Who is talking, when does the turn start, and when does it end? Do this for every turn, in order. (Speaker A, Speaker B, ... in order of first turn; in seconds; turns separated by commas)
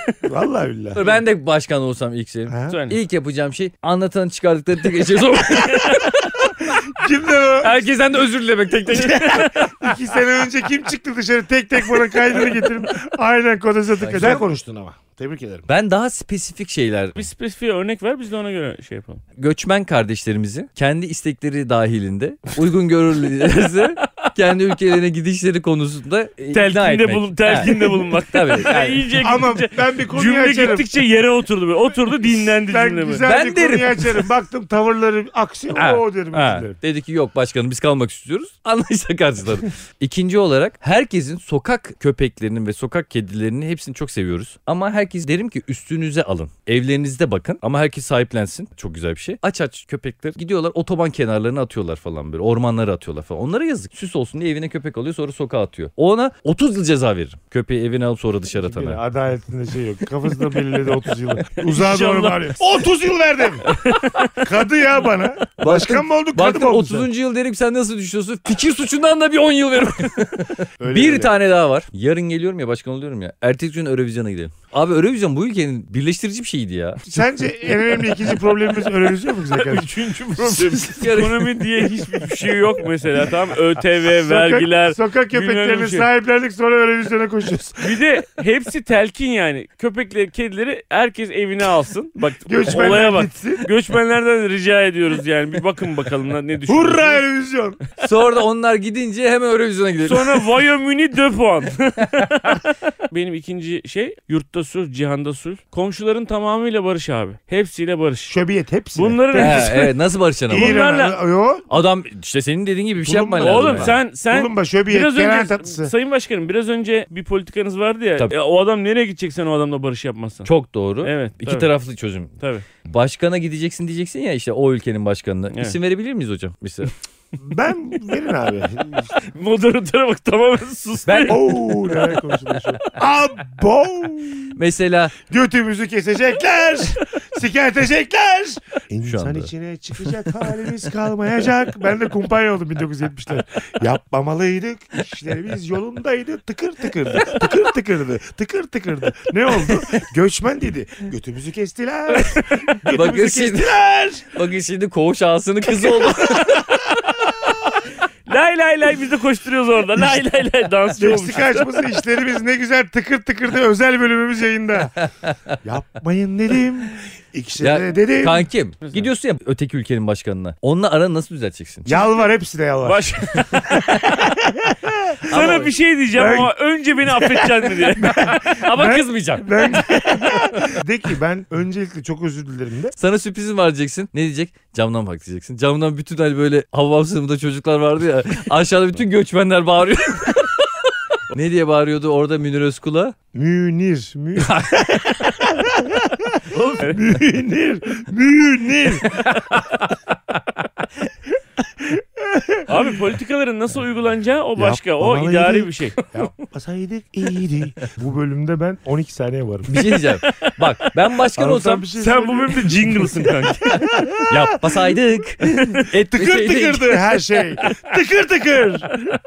Speaker A: 0.2-1.2, Speaker B: 0.9-6.5, Speaker A: 2.5-2.8, Speaker C: 2.7-3.0, Speaker A: 6.7-7.8, Speaker B: 7.6-9.7, Speaker C: 9.1-9.5, Speaker A: 9.8-15.7, Speaker B: 14.0-14.4, Speaker B: 15.7-17.2, Speaker C: 17.1-19.2, Speaker B: 19.4-29.1, Speaker C: 26.5-33.2, Speaker A: 29.2-30.9, Speaker A: 32.3-36.8, Speaker B: 33.2-34.2, Speaker B: 35.7-59.0, Speaker A: 58.6-63.7, Speaker C: 61.6-62.6, Speaker C: 63.6-64.4, Speaker A: 64.3-67.1, Speaker B: 65.6-77.0, Speaker A: 70.8-71.3, Speaker A: 77.0-79.9, Speaker C: 79.5-86.0, Speaker B: 80.6-81.5, Speaker A: 84.2-88.0, Speaker C: 87.8-97.2, Speaker A: 92.5-93.7, Speaker A: 96.7-97.8, Speaker B: 98.0-100.4, Speaker C: 100.0-108.3, Speaker A: 108.3-109.8, Speaker C: 108.9-109.9, Speaker B: 109.3-110.8, Speaker A: 110.5-111.7, Speaker C: 110.5-111.2, Speaker B: 111.7-113.9, Speaker A: 113.0-115.9, Speaker C: 113.4-120.5, Speaker B: 120.4-122.3, Speaker C: 121.0-121.7, Speaker C: 122.4-122.6, Speaker B: 122.8-126.9, Speaker A: 127.4-129.1, Speaker C: 129.2-131.8, Speaker B: 131.1-131.6, Speaker A: 131.3-134.6, Speaker B: 134.5-135.1, Speaker A: 135.3-154.2, Speaker B: 139.0-139.5, Speaker B: 149.6-149.9, Speaker B: 152.8-153.8, Speaker B: 154.3-156.7, Speaker C: 155.8-157.1, Speaker C: 158.3-161.8, Speaker A: 161.0-164.9, Speaker B: 165.0-165.5, Speaker A: 165.6-168.5, Speaker B: 167.6-172.0, Speaker C: 168.8-169.1, Speaker A: 171.8-173.2, Speaker C: 172.8-173.8, Speaker B: 173.6-174.2, Speaker A: 174.2-175.4, Speaker B: 175.3-175.7, Speaker C: 175.3-178.1, Speaker A: 176.1-176.5, Speaker A: 177.2-182.9, Speaker B: 178.5-180.8, Speaker B: 183.0-190.7, Speaker B: 191.3-193.1, Speaker A: 193.3-199.2, Speaker B: 194.4-194.9, Speaker B: 196.5-196.9, Speaker B: 199.1-199.6, Speaker A: 201.8-202.8, Speaker C: 202.7-206.0, Speaker A: 204.6-209.8, Speaker B: 209.7-211.9, Speaker C: 210.2-210.5, Speaker A: 211.4-214.7, Speaker C: 212.0-213.9, Speaker B: 214.3-217.1, Speaker C: 215.5-215.8, Speaker A: 216.0-218.9